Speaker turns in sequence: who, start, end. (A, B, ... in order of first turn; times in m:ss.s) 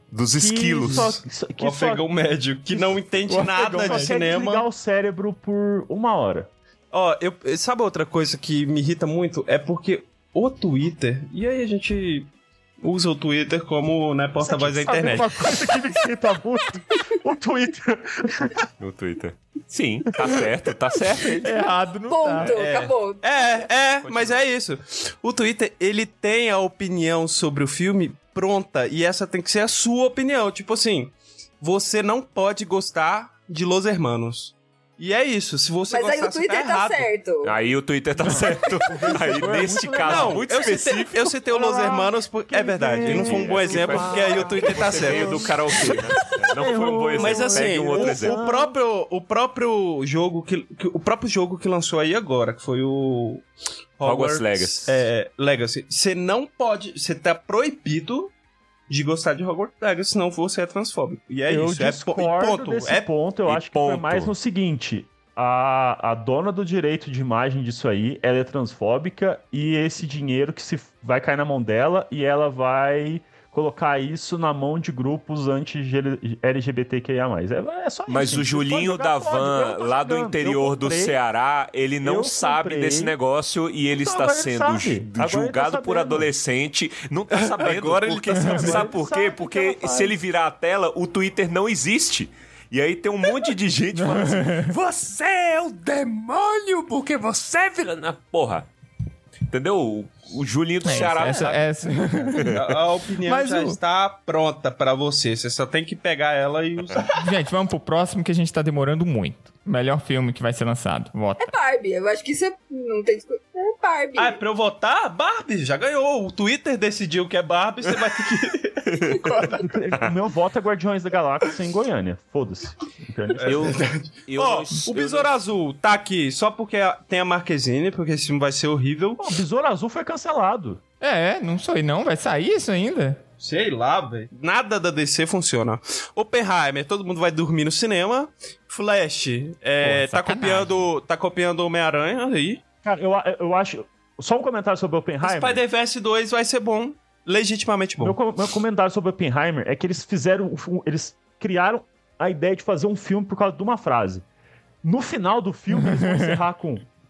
0:00.1-0:01.1 A
0:00.4-0:02.0 B
0:00.8-0:04.7 C
0:03.3-0:04.4 D
0:03.3-0:06.5 B
0:06.9-0:15.3 C
0:14.4-0:18.6 B
0:18.8-0:21.7 A
0:21.4-0:22.6 D
0:22.1-0:23.2 E
0:22.4-0:37.1 C
0:24.0-0:24.4 A
0:35.9-0:37.5 E
0:37.4-0:41.3 A
0:38.2-0:46.0 B
0:40.0-0:46.0 C
0:43.0-0:48.4 A
0:46.6-0:48.8 B
0:47.2-0:53.5 C
0:54.0-0:58.3 C
0:54.0-0:55.0 A
0:58.9-1:03.1 C
1:01.5-1:21.2 B
1:03.5-1:04.3 A
1:18.1-1:38.7 A
1:22.0-1:23.2 B
1:24.0-1:26.3 B
1:27.3-1:28.9 C
1:28.4-1:28.7 D
1:28.5-1:30.2 B
1:33.9-1:34.7 D
1:39.5-1:42.6 A
1:40.8-1:42.6 D
1:40.9-1:41.4 C
1:42.5-1:47.2 C
1:43.2-1:43.8 D
1:47.2-1:51.5 D
1:51.4-1:54.4 E
1:54.2-1:59.7 C
1:58.9-2:00.1 A
1:59.6-2:03.8 B
2:03.4-2:09.3 C
2:03.4-2:05.4 A
2:09.2-2:10.8 B
2:11.0-2:13.2 D
2:13.4-2:22.6 C
2:19.8-2:20.8 D
2:22.8-2:25.6 B
2:25.2-2:28.2 C
2:28.0-2:34.2 B
2:34.8-2:36.8 B